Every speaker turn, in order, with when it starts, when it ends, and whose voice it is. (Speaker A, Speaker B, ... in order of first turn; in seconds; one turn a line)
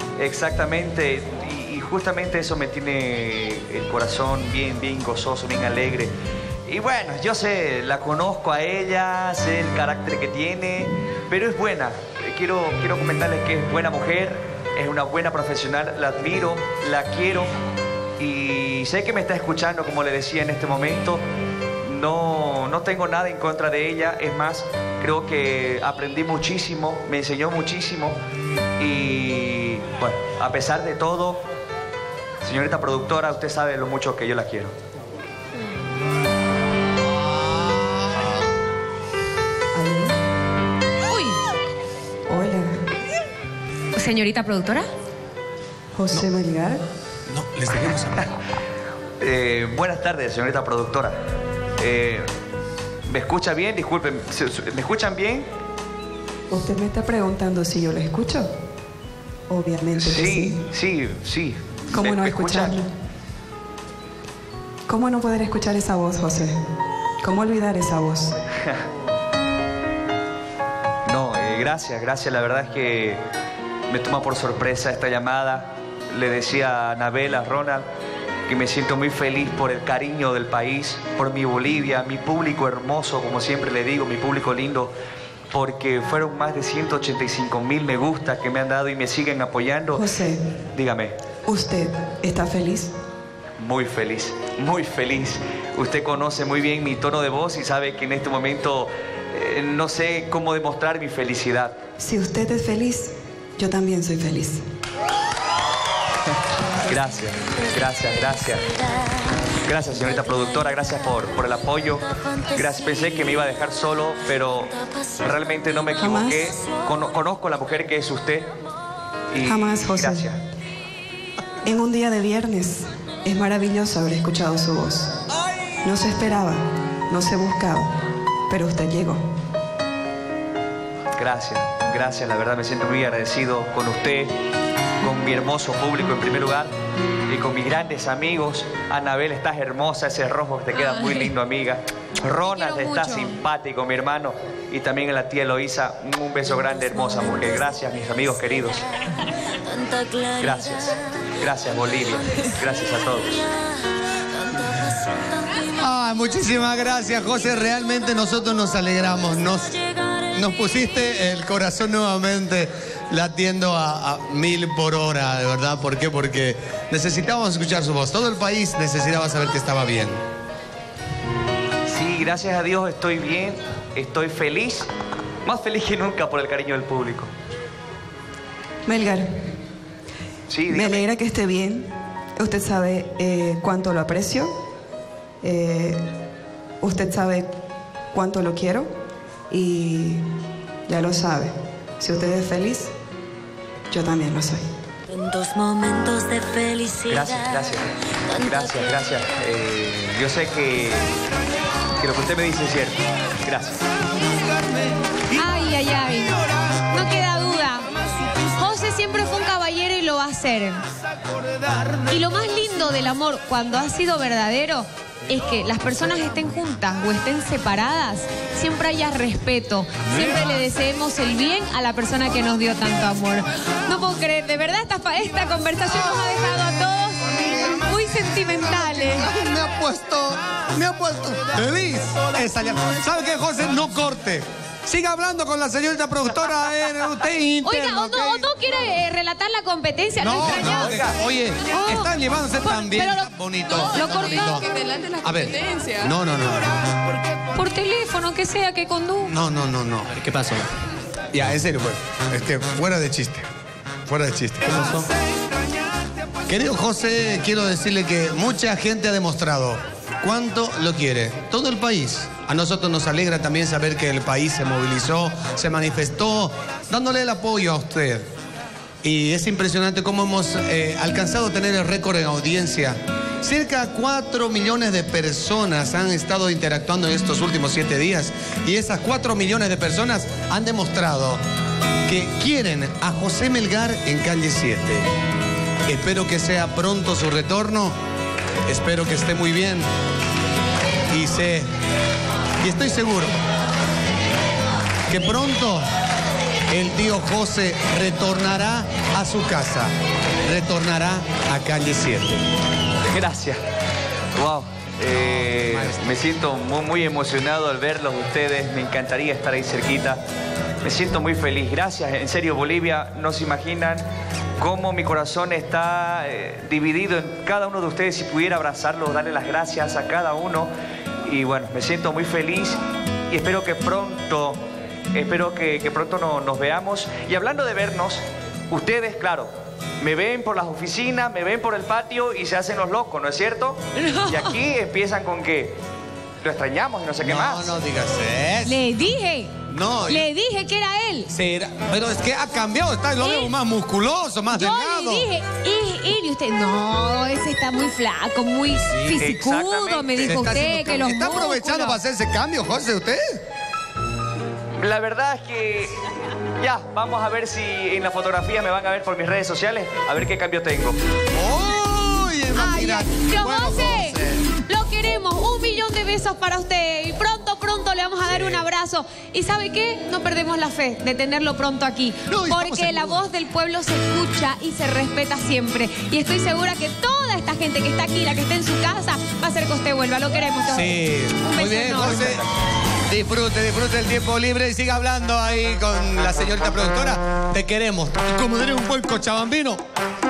Speaker A: 0.2-6.1
Speaker A: 6.7-17.5
Speaker A: 18.2-21.2
Speaker A: 21.8-28.2
Speaker A: 28.8-31.4
Speaker A: 32.4-34.7
Speaker B: 37.1-38.4
Speaker C: 39.7-40.1
Speaker D: 41.1-41.4
Speaker C: 42.3-42.8
Speaker D: 43.9-44.9
Speaker C: 45.9-46.8
Speaker B: 47.3-48.3
Speaker A: 49.2-51.1
Speaker A: 51.8-52.3
Speaker A: 53.1-55.5
Speaker C: 56.5-58.5
Speaker C: 59.5-60.6
Speaker A: 59.9-62.8
Speaker C: 61.9-62.9
Speaker C: 64.9-66.5
Speaker C: 67.2-68.4
Speaker A: 71.0-73.2
Speaker A: 73.9-77.9
Speaker A: 78.5-84.9
Speaker A: 85.5-90.1
Speaker C: 89.9-90.4
Speaker A: 90.7-91.1
Speaker C: 91.5-92.9
Speaker A: 93.6-101.8
Speaker C: 102.0-104.6
Speaker A: 106.8-108.7
Speaker A: 109.5-118.5
Speaker C: 116.0-116.4
Speaker A: 119.3-120.4
Speaker C: 119.4-120.3
Speaker C: 121.6-125.1
Speaker C: 125.8-127.9
Speaker C: 128.5-129.2
Speaker A: 131.2-134.3
Speaker A: 135.0-136.7
Speaker A: 137.3-148.9
Speaker D: 140.7-141.3
Speaker D: 142.5-143.4
Speaker E: 149.6-150.4
Speaker A: 150.3-153.4
Speaker B: 155.6-159.8
Speaker B: 160.3-170.2
Speaker A: 171.9-174.9
Speaker A: 175.4-177.3
Speaker C: 178.8-179.3
Speaker A: 180.5-181.0
Speaker C: 180.7-184.5
Speaker C: 185.4-186.0
Speaker C: 186.8-187.5
Speaker C: 188.1-188.9
Speaker C: 189.5-190.2
Speaker C: 190.9-192.9
Speaker C: 193.9-194.6
Speaker E: 195.1-197.1
Speaker A: 197.0-201.1
Speaker A: 202.0-203.8
Speaker D: 205.3-207.9
Speaker D: 208.5-210.8
Speaker D: 212.0-229.3
Speaker B: 228.8-238.5
Speaker D: 237.6-241.1
Speaker B: 240.2-244.7
Speaker A: 240.4-241.1
Speaker D: 241.7-245.9
Speaker B: 245.2-246.7
Speaker D: 247.5-249.3
Speaker B: 249.3-250.7
Speaker B: 251.3-253.5
Speaker B: 254.1-255.1
Speaker B: 256.5-268.3
Speaker B: 269.0-281.4
Speaker B: 282.1-285.1
Speaker B: 285.9-287.9
Speaker B: 288.6-289.9
Speaker B: 291.1-291.7
Speaker B: 292.6-293.4
Speaker B: 295.1-295.9
Speaker B: 296.7-299.9
Speaker B: 300.4-302.4
Speaker A: 303.0-303.6
Speaker A: 304.3-310.2
Speaker B: 305.2-306.3
Speaker A: 310.8-314.0
Speaker A: 314.6-320.7
Speaker A: 321.2-322.8
Speaker A: 323.3-324.6
Speaker A: 325.1-335.8
Speaker D: 334.0-334.5
Speaker A: 336.4-337.7
Speaker B: 337.2-338.8
Speaker D: 338.6-341.3
Speaker B: 339.7-340.3
Speaker B: 341.3-345.3
Speaker D: 343.2-343.5
Speaker D: 344.5-352.0
Speaker B: 348.7-349.3
Speaker A: 349.2-350.3
Speaker B: 350.2-353.4
Speaker A: 354.8-361.0
Speaker B: 361.3-364.5
Speaker D: 362.5-382.4
Speaker B: 368.3-368.6
Speaker B: 372.3-373.2
Speaker B: 380.7-382.4
Speaker A: 382.0-382.5
Speaker B: 383.1-389.8